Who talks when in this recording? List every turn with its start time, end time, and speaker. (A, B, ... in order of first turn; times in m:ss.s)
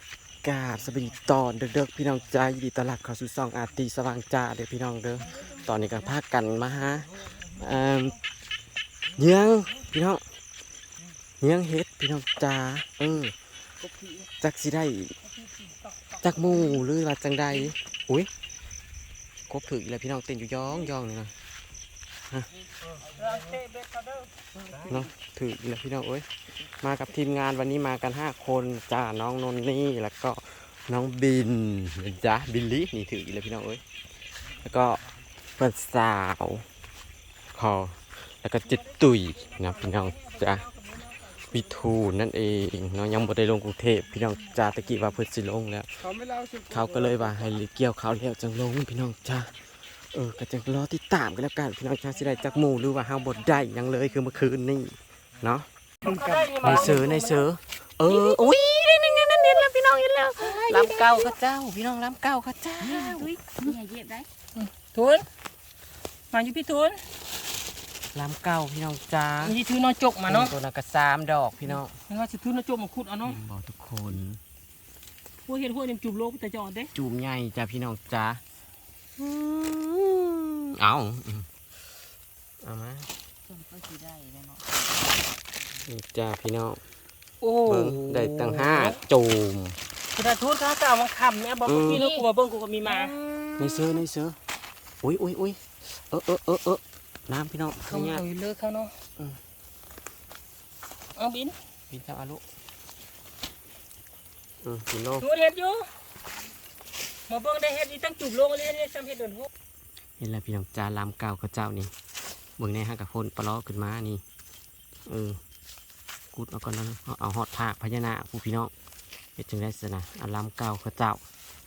0:00.4-0:08.2 A
0:05.2-0:05.9 B
0:09.2-0:10.2 A
0:11.4-0:13.3 A
0:13.8-0:14.3 C
0:14.4-0:15.1 A
0:15.2-0:16.8 B
0:16.2-0:18.3 A
0:19.5-0:21.3 A
0:23.1-0:24.3 B
0:24.6-0:25.0 C
0:24.8-0:33.8 A
0:34.5-0:35.0 A
0:35.6-0:36.7 A
0:37.5-0:40.7 A
0:38.6-0:42.0 B
0:41.5-0:45.9 A
0:46.6-0:49.5 A
0:50.1-0:55.7 A
0:52.1-0:53.9 B
0:56.0-0:57.5 B
0:56.6-1:03.3 A
1:00.4-1:01.4 B
1:02.8-1:04.3 C
1:04.6-1:05.3 B
1:06.3-1:07.0 B
1:08.1-1:09.6 A
1:09.4-1:10.5 B
1:10.3-1:11.9 A
1:11.7-1:13.4 B
1:13.2-1:14.4 A
1:15.4-1:16.9 B
1:16.9-1:18.4 A
1:19.2-1:21.5 A
1:22.6-1:23.1 A
1:23.5-1:25.6 C
1:25.8-1:26.8 A
1:27.4-1:29.0 B
1:27.6-1:29.8 A
1:30.1-1:33.8 B
1:31.7-1:32.0 A
1:31.9-1:32.2 C
1:32.8-1:33.2 C
1:33.6-1:34.4 A
1:35.0-1:38.2 A
1:37.8-1:38.9 B
1:41.2-1:41.6 B
1:41.9-1:42.4 A
1:44.6-1:45.3 A
1:45.2-1:45.9 B
1:47.3-1:49.5 B
1:50.2-1:51.9 A
1:52.6-1:54.2 A
1:55.1-1:55.4 A
1:56.3-1:58.7 A
1:59.4-2:01.2 A